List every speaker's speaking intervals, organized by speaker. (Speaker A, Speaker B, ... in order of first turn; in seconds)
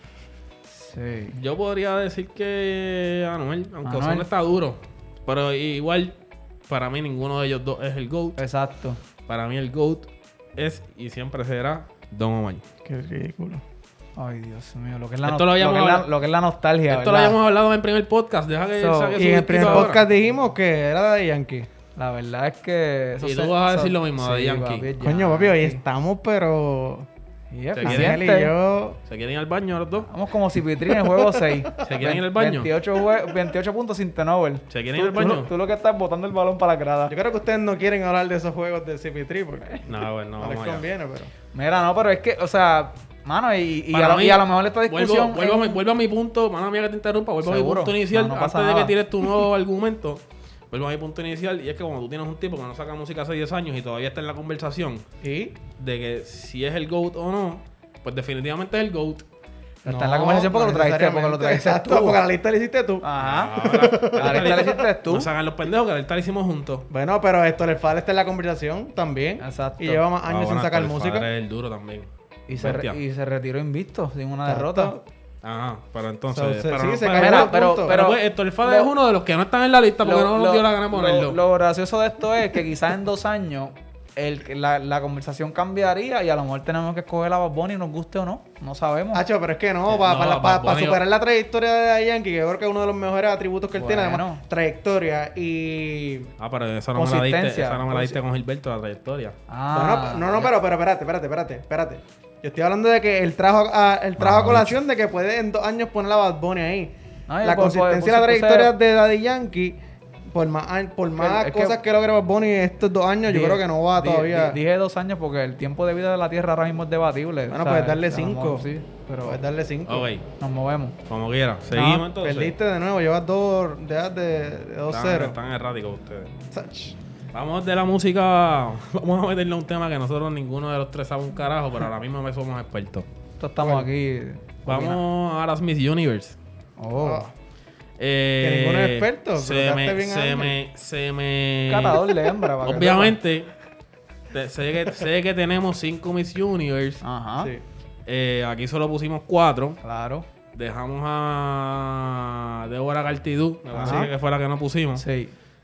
Speaker A: 0.7-1.4, 3.8-4.3, 8.4-9.0, 14.2-17.4, 18.8-19.9, 22.0-25.8, 27.5-28.5, 30.1-37.1, 41.5-45.8, 47.4-48.9, 59.8-62.2, 63.0-65.3, 69.4-70.0, 72.5-75.0, 77.1-78.9, 80.0-89.2, 93.8-94.4, 97.0-97.9, 99.5-100.5, 107.3-108.7, 111.2-111.8, 113.3-119.4, 120.4-121.0, 121.7-122.0, 133.4-135.0, 136.8-137.3, 141.7-143.2, 147.0-147.5, 149.8-150.3, 153.7-154.1, 155.0-155.3
Speaker B: 1.4-6.2, 6.7-8.4, 9.3-12.6, 15.2-16.1, 16.9-20.0, 23.2-24.9, 27.8-28.2, 29.1-30.1, 31.8-32.7, 34.7-35.5, 39.9-40.9, 43.9-55.0, 55.8-59.2, 63.2-66.9, 70.3-73.0, 75.4-81.4, 89.9-91.0, 96.4-99.4, 104.2-104.8, 119.9-120.2, 121.1-122.5, 124.9-126.3, 127.3-133.1, 134.7-136.4, 138.0-142.1, 142.6-143.5, 144.3-147.0, 148.1-149.8, 150.5-155.0
Speaker C: 12.8-13.6, 19.2-21.7, 25.0-27.1, 27.8-29.0, 30.9-31.6, 37.1-41.3, 55.2-55.6, 59.9-63.0, 63.6-64.8, 66.9-71.3, 74.5-75.0, 76.3-78.0, 89.1-96.3, 99.7-109.8, 110.3-114.6, 117.5-118.7, 119.2-120.1, 122.2-125.3, 126.5-127.0, 133.6-133.9, 137.0-137.3, 138.4-140.6, 153.8-154.1